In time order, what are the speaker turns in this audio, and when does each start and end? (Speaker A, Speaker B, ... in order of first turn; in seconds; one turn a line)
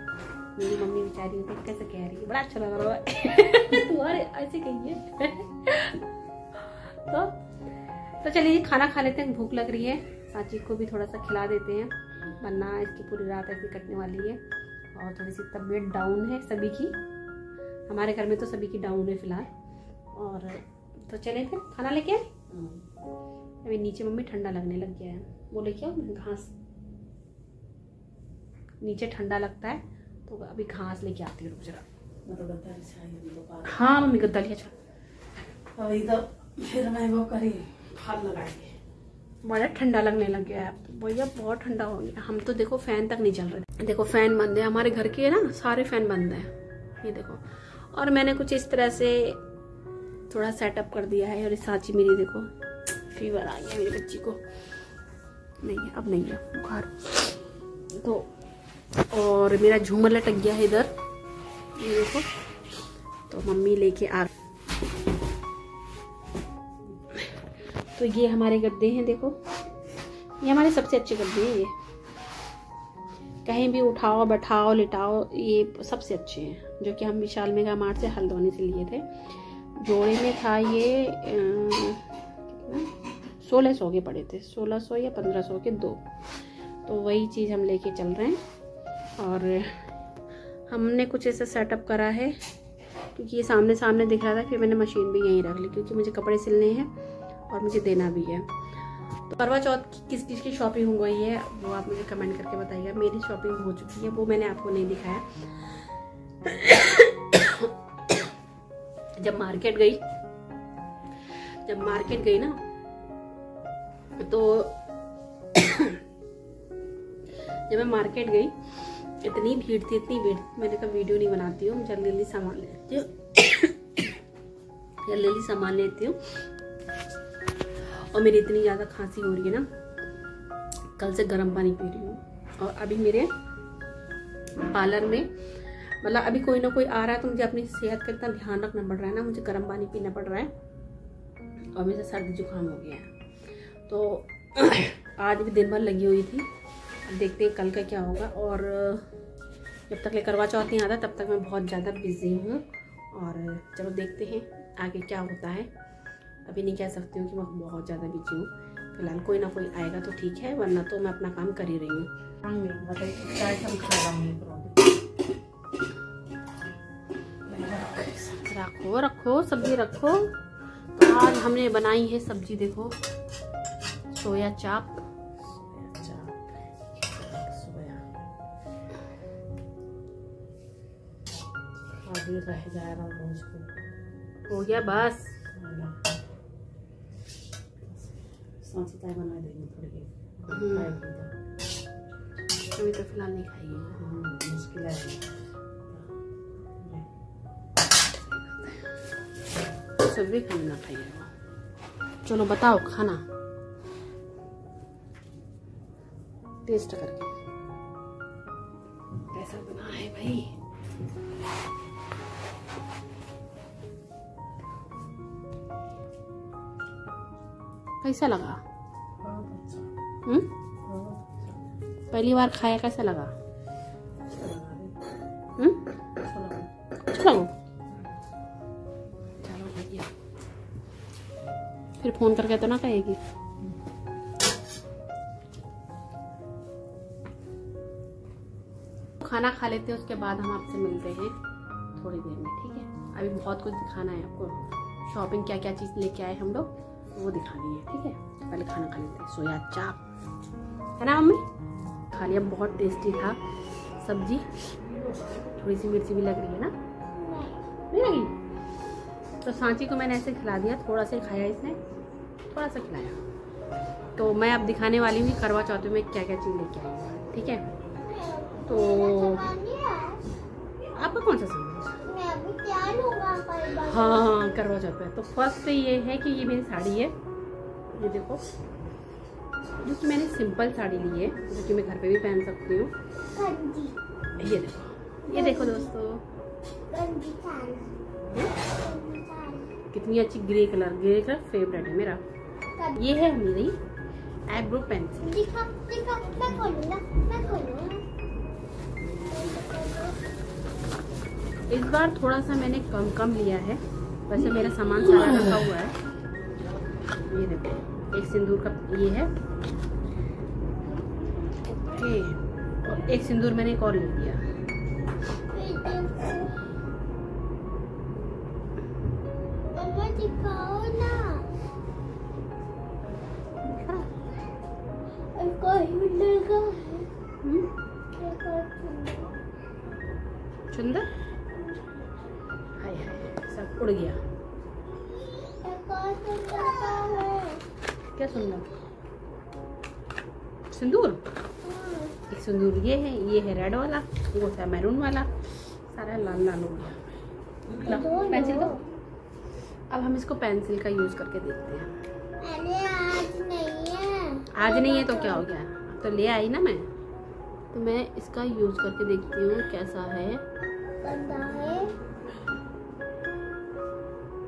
Speaker A: 0.6-6.0
Speaker A: 6.5-7.3
Speaker A: 8.2-14.4
Speaker A: 14.9-16.9
Speaker A: 17.9-19.5
Speaker A: 20.2-22.4
Speaker B: 22.5-22.8
Speaker A: 23.6-26.5
Speaker A: 28.8-31.8
Speaker B: 32.2-33.9
Speaker A: 33.6-34.7
Speaker B: 35.8-38.8
Speaker A: 39.4-49.4
Speaker A: 50.3-52.5
Speaker A: 53.1-54.4
Speaker A: 55.6-57.2
Speaker A: 58.0-58.3
Speaker A: 59.1-60.9
Speaker A: 61.8-62.3
Speaker A: 63.3-64.3
Speaker A: 68.0-69.4
Speaker A: 70.4-71.7
Speaker A: 73.5-79.1
Speaker A: 79.8-86.0
Speaker A: 86.9-88.4
Speaker A: 89.2-89.9
Speaker A: 90.7-92.4
Speaker A: 93.2-96.9
Speaker A: 97.5-98.5
Speaker A: 99.3-105.8
Speaker A: 106.5-107.7
Speaker A: 109.2-110.0
Speaker A: 111.7-112.6
Speaker A: 114.2-114.8
Speaker A: 115.6-116.0
Speaker A: 117.7-123.7
Speaker A: 125.0-126.2
Speaker A: 128.1-129.7
Speaker A: 131.0-133.3
Speaker A: 134.7-135.3
Speaker A: 136.0-140.5
Speaker A: 141.8-143.1
Speaker A: 143.9-146.5
Speaker A: 147.1-149.1
Speaker A: 149.9-155.7
Speaker A: 156.5-162.1
Speaker B: 162.4-165.0
Speaker B: 167.5-168.5
Speaker A: 168.4-170.3
Speaker A: 171.0-173.0
Speaker A: 174.1-175.0
Speaker B: 175.5-176.4
Speaker B: 177.1-178.2
Speaker B: 182.0-183.7
Speaker A: 184.5-185.4
Speaker B: 185.5-186.1
Speaker B: 187.8-191.3
Speaker A: 190.5-190.9
Speaker A: 192.8-194.1
Speaker B: 194.0-195.3
Speaker A: 198.2-198.8
Speaker A: 200.0-201.3
Speaker A: 202.2-203.2
Speaker A: 206.7-207.3
Speaker A: 209.3-210.5
Speaker A: 218.0-218.6
Speaker B: 219.2-219.9
Speaker B: 220.8-221.6
Speaker A: 222.1-223.3
Speaker B: 224.3-224.9
Speaker B: 226.2-226.7
Speaker A: 227.1-227.5
Speaker A: 229.4-230.1
Speaker A: 232.0-233.2
Speaker A: 239.2-241.3
Speaker A: 242.0-250.0
Speaker A: 251.0-251.4
Speaker A: 252.1-253.4
Speaker A: 254.0-254.5
Speaker A: 255.6-256.7
Speaker C: 257.1-257.6
Speaker A: 257.9-258.3
Speaker A: 259.4-261.8
Speaker A: 262.5-263.2
Speaker A: 264.2-267.6
Speaker C: 268.0-270.2
Speaker A: 268.7-269.5
Speaker A: 271.0-272.0
Speaker C: 272.0-274.6
Speaker A: 273.8-277.1
Speaker A: 277.9-278.4
Speaker A: 279.8-282.9
Speaker C: 283.3-284.0
Speaker A: 284.4-286.2
Speaker C: 285.3-285.9
Speaker C: 286.9-287.9
Speaker C: 288.6-289.7
Speaker A: 289.9-292.2
Speaker A: 293.0-293.8
Speaker A: 294.5-295.2
Speaker C: 295.2-298.0
Speaker C: 299.2-300.2
Speaker A: 301.7-305.9
Speaker A: 307.3-309.3
Speaker A: 311.8-314.4
Speaker C: 315.5-316.6
Speaker C: 319.7-321.5
Speaker A: 323.6-324.1
Speaker C: 325.3-327.1
Speaker A: 327.4-327.7
Speaker C: 328.1-329.4
Speaker A: 330.7-331.1
Speaker A: 332.8-334.2
Speaker C: 335.4-337.6
Speaker A: 338.2-338.7
Speaker A: 340.7-341.2
Speaker C: 341.6-342.2
Speaker A: 342.3-345.3
Speaker A: 345.9-347.0
Speaker A: 347.8-348.8
Speaker C: 347.8-348.8
Speaker A: 349.9-351.9
Speaker C: 352.4-355.5
Speaker A: 354.6-356.9
Speaker A: 357.7-360.4
Speaker C: 361.0-361.9